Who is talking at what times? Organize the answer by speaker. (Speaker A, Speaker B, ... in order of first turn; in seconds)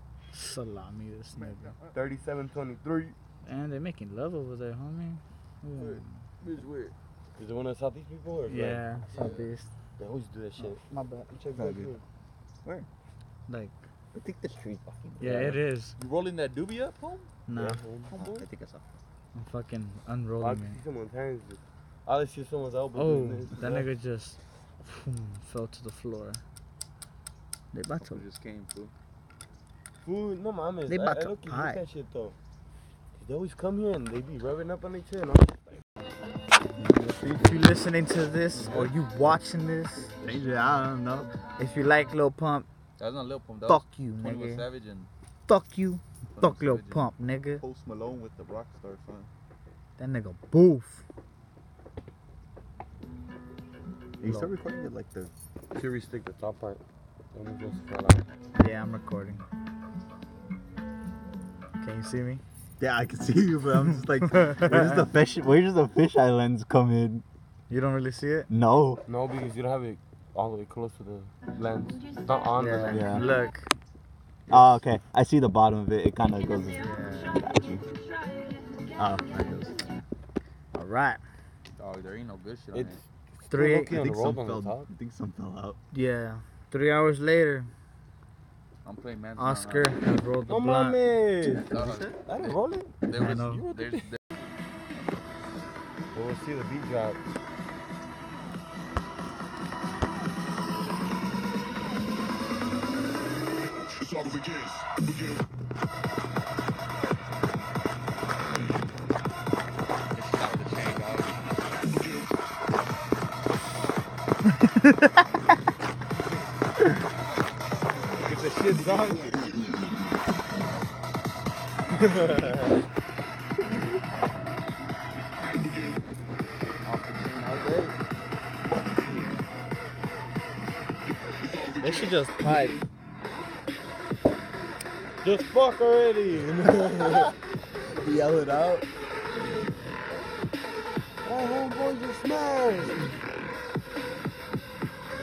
Speaker A: 0.3-1.8, 3.4-6.2, 8.5-9.7, 10.6-11.3, 13.5-13.8, 15.2-15.9, 17.5-17.8, 19.3-20.8, 22.9-26.4, 27.7-28.2, 30.9-31.2, 36.8-40.1, 41.6-42.7, 43.7-44.7, 45.5-47.6, 50.0-51.0, 58.6-59.4, 61.8-62.4, 64.3-65.0, 67.7-68.5, 72.6-73.7, 76.8-77.4, 80.7-81.2, 83.5-83.9, 85.9-87.7, 89.4-91.0, 93.1-93.6, 114.6-115.2, 131.8-132.8
Speaker B: 1.3-2.0, 5.8-6.9, 9.1-9.5, 16.0-17.3, 28.0-28.9, 43.0-45.1, 46.3-49.1, 81.8-83.0, 88.8-90.1, 91.7-94.2, 110.1-111.4, 118.2-119.4, 126.8-128.0
Speaker C: 1.9-3.1, 7.4-8.8, 10.0-10.8, 11.3-12.0, 17.5-18.4, 20.4-23.8, 30.0-32.4, 33.1-35.5, 55.7-56.8, 57.3-58.2, 69.1-73.2, 82.7-84.9, 90.5-92.9, 96.1-97.2, 118.6-119.3, 122.0-122.7, 135.2-137.3, 141.2-143.2
Speaker D: 11.5-11.9, 14.1-15.6, 18.1-18.9, 31.1-31.8, 40.2-41.3, 47.6-49.3, 54.2-55.3, 62.8-67.2, 68.5-69.0, 72.9-73.3, 74.5-77.8, 78.9-80.0, 83.9-85.8, 91.7-92.1, 138.0-138.8